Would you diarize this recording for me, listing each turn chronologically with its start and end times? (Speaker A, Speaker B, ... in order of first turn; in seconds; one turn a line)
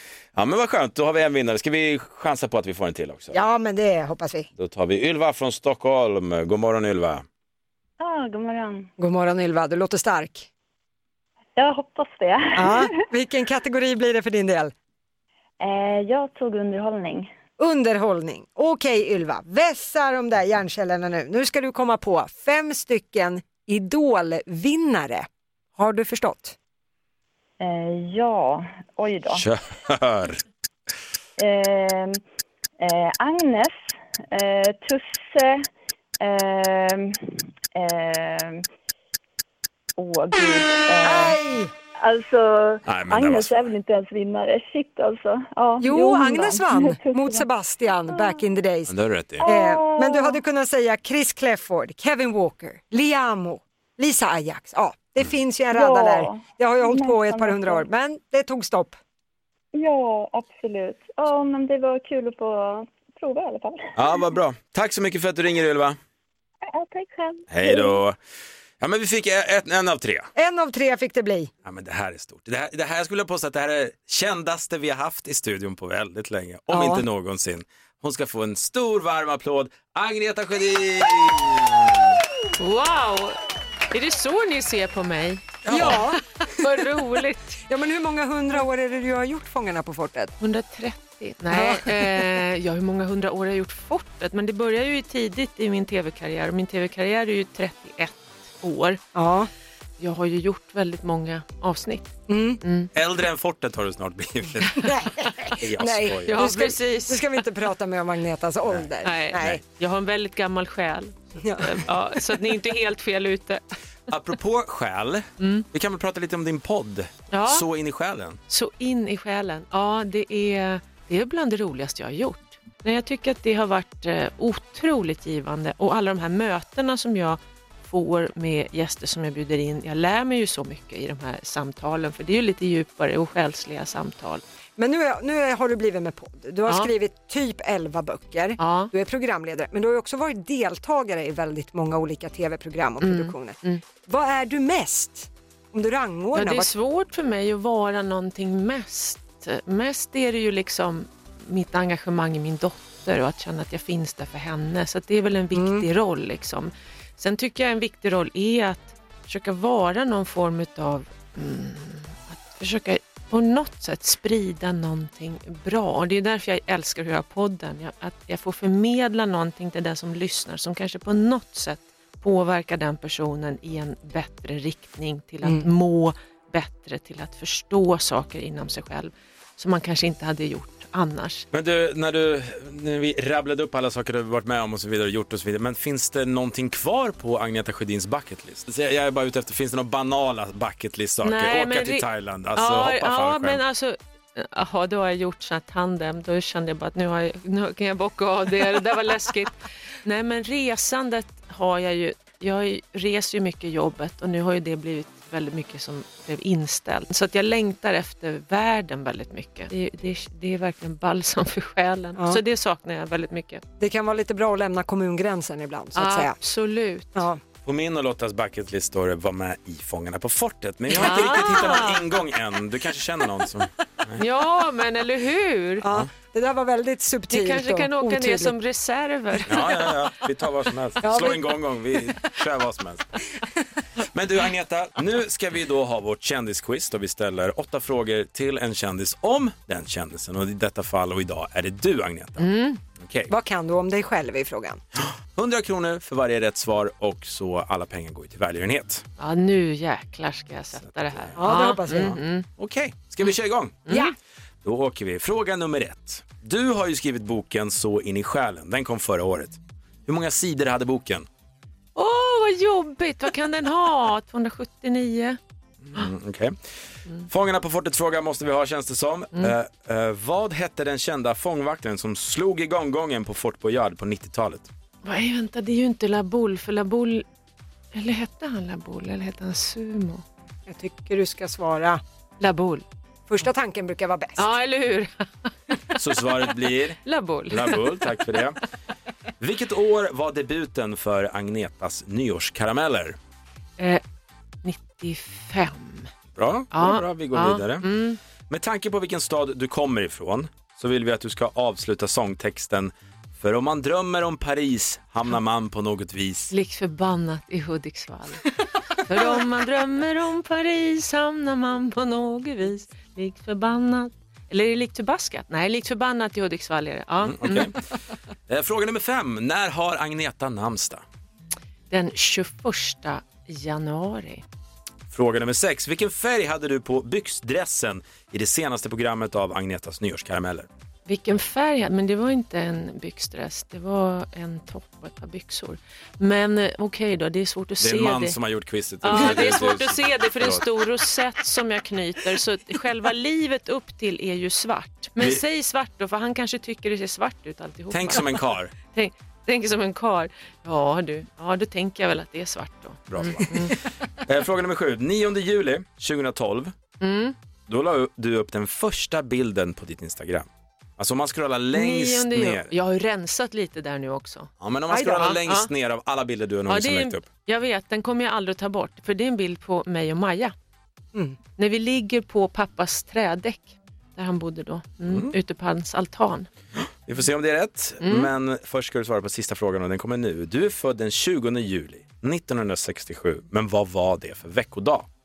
Speaker A: 0.3-3.4
Speaker B: 3.3-4.5
Speaker A: 4.6-7.2
Speaker C: 8.0-8.9
Speaker B: 9.0-10.5
Speaker C: 11.6-12.9
Speaker B: 12.6-14.7
Speaker C: 15.6-17.3
Speaker B: 17.6-26.6
Speaker C: 27.6-29.4
Speaker A: 29.3-30.4
Speaker C: 31.4-32.2
Speaker C: 32.8-33.8
Speaker C: 34.3-35.7
Speaker C: 36.2-38.6
Speaker C: 40.0-41.4
Speaker B: 41.0-41.7
Speaker C: 42.0-47.5
Speaker A: 42.9-43.7
Speaker B: 45.8-59.0
Speaker C: 48.0-48.4
Speaker A: 48.9-49.4
Speaker C: 49.4-50.4
Speaker C: 55.7-57.9
Speaker C: 59.7-64.2
Speaker A: 64.0-66.0
Speaker C: 66.7-68.0
Speaker A: 67.5-68.2
Speaker A: 68.8-70.3
Speaker B: 70.3-71.5
Speaker A: 71.6-82.2
Speaker B: 76.7-77.0
Speaker D: 82.6-83.4
Speaker D: 83.9-86.0
Speaker A: 85.6-86.0
Speaker B: 85.7-86.7
Speaker D: 86.5-87.6
Speaker B: 87.7-90.3
Speaker D: 90.4-99.0
Speaker B: 91.5-92.3
Speaker B: 99.1-99.5
Speaker D: 100.0-102.0
Speaker B: 102.3-102.6
Speaker D: 102.6-102.9
Speaker A: 102.9-106.6
Speaker B: 104.8-109.6
Speaker D: 106.2-107.3
Speaker D: 109.0-113.6
Speaker B: 111.4-111.8
Speaker A: 114.1-118.4
Speaker D: 115.4-115.7
Speaker D: 117.3-117.6
Speaker D: 118.5-134.4
Speaker B: 134.8-146.7
Speaker D: 138.6-138.9
Speaker D: 143.0-143.8
Speaker D: 146.3-181.4
Speaker B: 155.5-155.9
Speaker B: 175.4-175.7
Speaker A: 181.5-193.6
Speaker D: 191.2-213.6
Speaker B: 212.2-212.4
Speaker B: 213.8-216.4
Speaker D: 215.9-217.2
Speaker A: 217.6-224.2
Speaker B: 220.9-221.8
Speaker D: 220.9-222.0
Speaker D: 224.2-225.8
Speaker B: 225.8-228.5
Speaker D: 227.3-229.9
Speaker A: 229.5-233.1
Speaker B: 231.0-231.6
Speaker A: 234.1-243.3
Speaker D: 242.4-242.8
Speaker B: 243.3-244.8
Speaker A: 245.0-249.0
Speaker D: 249.2-252.5
Speaker A: 250.8-251.4
Speaker B: 251.3-252.2
Speaker A: 252.6-253.9
Speaker D: 253.8-254.1
Speaker B: 253.9-254.1
Speaker A: 254.6-261.3
Speaker D: 261.9-265.4
Speaker A: 265.8-266.6
Speaker A: 267.3-274.7
Speaker D: 275.0-277.2
Speaker D: 277.9-280.2
Speaker B: 280.7-282.0
Speaker D: 282.4-282.8
Speaker B: 283.3-284.5
Speaker D: 284.4-285.5
Speaker A: 285.9-287.0
Speaker D: 287.0-288.0
Speaker A: 287.5-288.6
Speaker A: 289.4-293.2
Speaker D: 294.6-296.1
Speaker A: 296.3-297.9
Speaker D: 296.7-298.2
Speaker A: 298.5-306.5
Speaker D: 306.5-308.5
Speaker D: 309.1-317.7
Speaker A: 317.2-317.8
Speaker A: 318.5-321.0
Speaker D: 321.9-324.4
Speaker A: 325.1-330.7
Speaker D: 331.1-338.4
Speaker A: 337.8-340.7
Speaker D: 339.0-353.8
Speaker A: 345.2-345.4
Speaker A: 347.9-348.7
Speaker A: 353.1-356.7
Speaker D: 357.0-357.4
Speaker A: 357.7-362.7
Speaker D: 361.7-365.7
Speaker A: 364.6-367.3
Speaker B: 364.9-365.3
Speaker D: 366.7-370.5
Speaker D: 371.6-376.5
Speaker A: 375.1-375.3
Speaker A: 377.1-385.1
Speaker D: 378.0-378.3